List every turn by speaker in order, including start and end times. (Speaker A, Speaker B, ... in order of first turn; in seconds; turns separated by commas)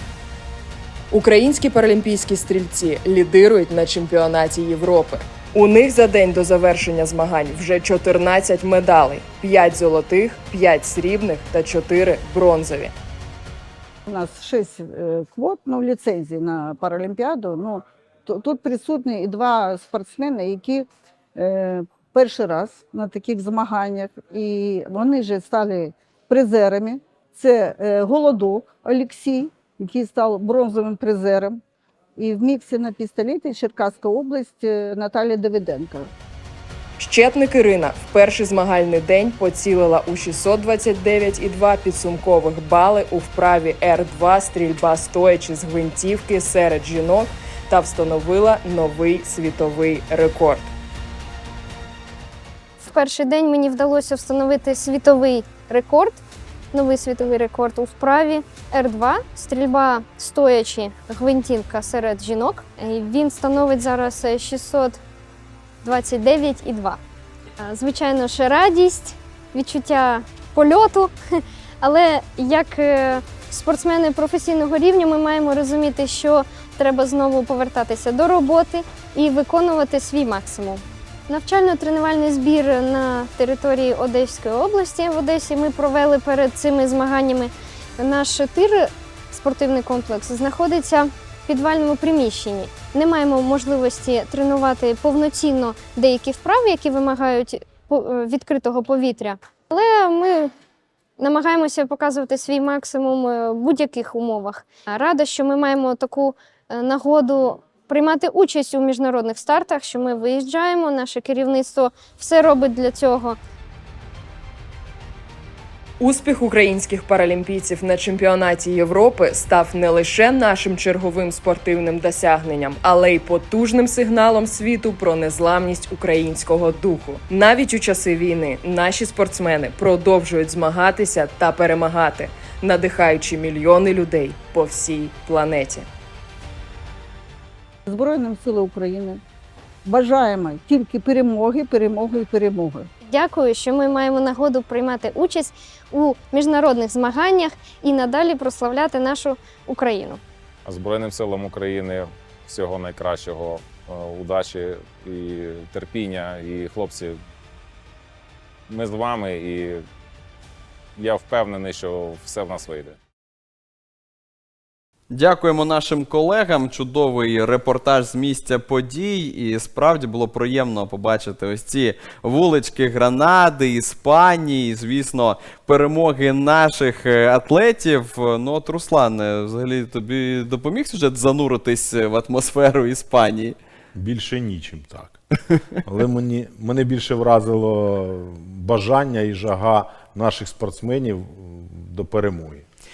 Speaker A: 1.1-12.9, Speaker B: 14.1-31.6, Speaker B: 32.2-36.1, Speaker A: 37.0-50.7, Speaker C: 52.8-56.2, Speaker C: 56.7-65.0, Speaker C: 65.8-67.0, Speaker C: 67.6-100.5, Speaker C: 101.2-113.4, Speaker A: 116.0-135.9, Speaker B: 137.8-139.2, Speaker B: 139.8-142.9, Speaker C: 143.0-150.2, Speaker D: 150.7-157.1, Speaker D: 158.7-159.8, Speaker D: 161.0-163.0, Speaker E: 165.1-183.6, Speaker F: 183.9-185.2, Speaker F: 185.8-192.6